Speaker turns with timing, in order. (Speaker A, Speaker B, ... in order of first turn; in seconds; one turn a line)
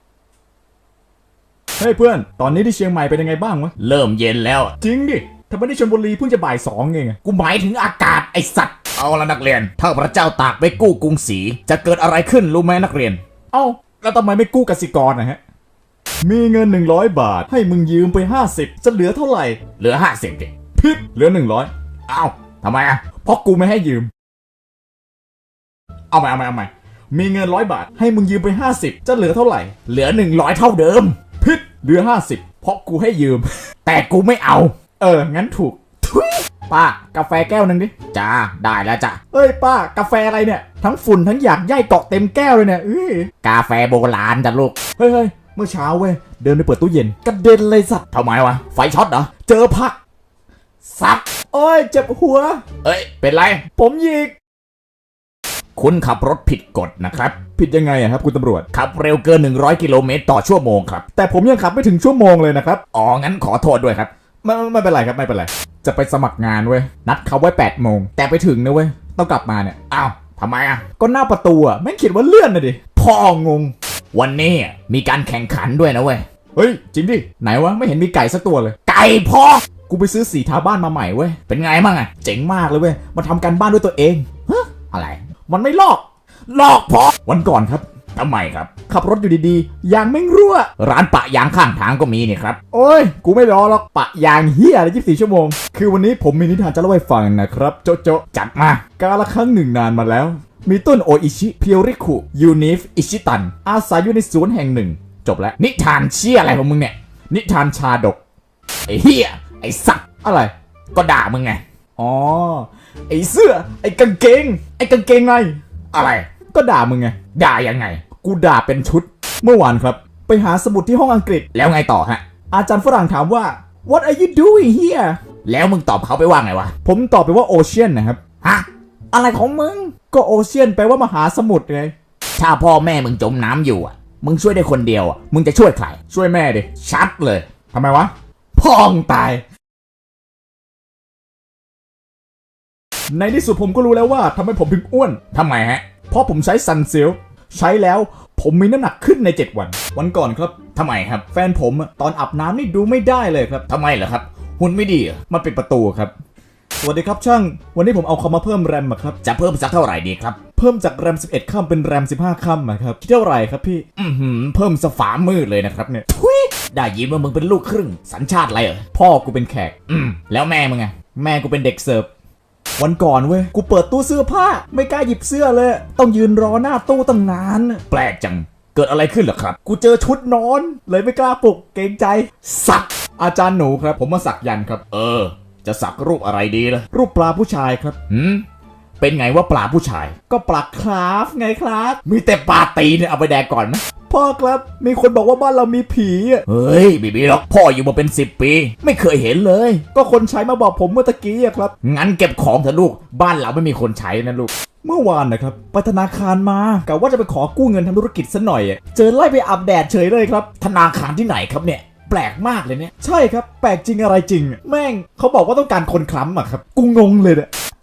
Speaker A: 1.8-3.8
Speaker B: 3.8-4.7
Speaker A: 4.7-7.4
Speaker B: 7.3-13.2
Speaker A: 13.5-15.4
Speaker A: 16.2-19.8
Speaker B: 19.8-20.5
Speaker A: 20.7-21.7
Speaker B: 22.1-23.1
Speaker A: 23.0-24.1
Speaker A: 26.1-30.0
Speaker B: 30.0-31.2
Speaker A: 31.2-33.5
Speaker B: 33.9-34.8
Speaker A: 34.9-38.3
Speaker B: 38.1-39.2
Speaker A: 39.2-43.5
Speaker B: 43.5-44.7
Speaker A: 44.0-48.5
Speaker B: 48.1-49.3
Speaker A: 49.3-50.0
Speaker A: 50.9-54.3
Speaker B: 52.8-53.6
Speaker B: 55.8-57.4
Speaker A: 57.4-58.7
Speaker B: 58.7-61.0
Speaker A: 61.0-62.9
Speaker B: 62.9-64.1
Speaker A: 64.4-73.7
Speaker B: 70.0-70.8
Speaker B: 74.1-76.2
Speaker A: 76.6-78.9
Speaker B: 78.9-79.7
Speaker A: 79.7-81.5
Speaker B: 81.5-82.3
Speaker A: 82.1-84.6
Speaker B: 84.7-85.2
Speaker A: 85.5-86.0
Speaker B: 86.5-87.1
Speaker A: 87.0-87.8
Speaker B: 88.2-88.7
Speaker A: 88.7-90.9
Speaker B: 90.8-92.6
Speaker A: 92.6-106.4
Speaker B: 98.5-98.8
Speaker B: 105.8-106.9
Speaker A: 107.3-108.2
Speaker B: 108.9-110.0
Speaker A: 110.0-110.5
Speaker B: 111.0-111.6
Speaker A: 112.0-117.4
Speaker B: 117.3-118.0
Speaker A: 118.0-125.2
Speaker B: 121.6-122.2
Speaker B: 125.5-126.7
Speaker A: 126.7-128.4
Speaker B: 128.4-129.9
Speaker A: 129.2-131.9
Speaker B: 132.4-135.9
Speaker A: 135.9-136.9
Speaker B: 136.8-137.5
Speaker A: 137.5-139.4
Speaker A: 143.1-145.4
Speaker B: 145.4-145.9
Speaker A: 145.9-153.7
Speaker B: 150.8-151.2
Speaker B: 153.7-155.2
Speaker A: 155.2-156.1
Speaker A: 156.8-159.2
Speaker B: 159.2-160.4
Speaker A: 159.8-163.9
Speaker B: 164.0-168.8
Speaker A: 165.6-166.1
Speaker A: 168.8-169.9
Speaker B: 169.9-171.0
Speaker A: 170.9-172.1
Speaker A: 172.8-178.2
Speaker B: 177.9-179.5
Speaker A: 179.5-185.0
Speaker B: 184.9-186.8
Speaker A: 186.8-188.3
Speaker B: 188.1-188.4
Speaker B: 189.0-190.1
Speaker A: 189.1-189.5
Speaker A: 190.1-192.2
Speaker B: 192.1-193.8
Speaker A: 193.9-198.7
Speaker B: 196.5-199.8
Speaker A: 199.8-217.5
Speaker B: 201.9-204.5
Speaker B: 210.6-212.9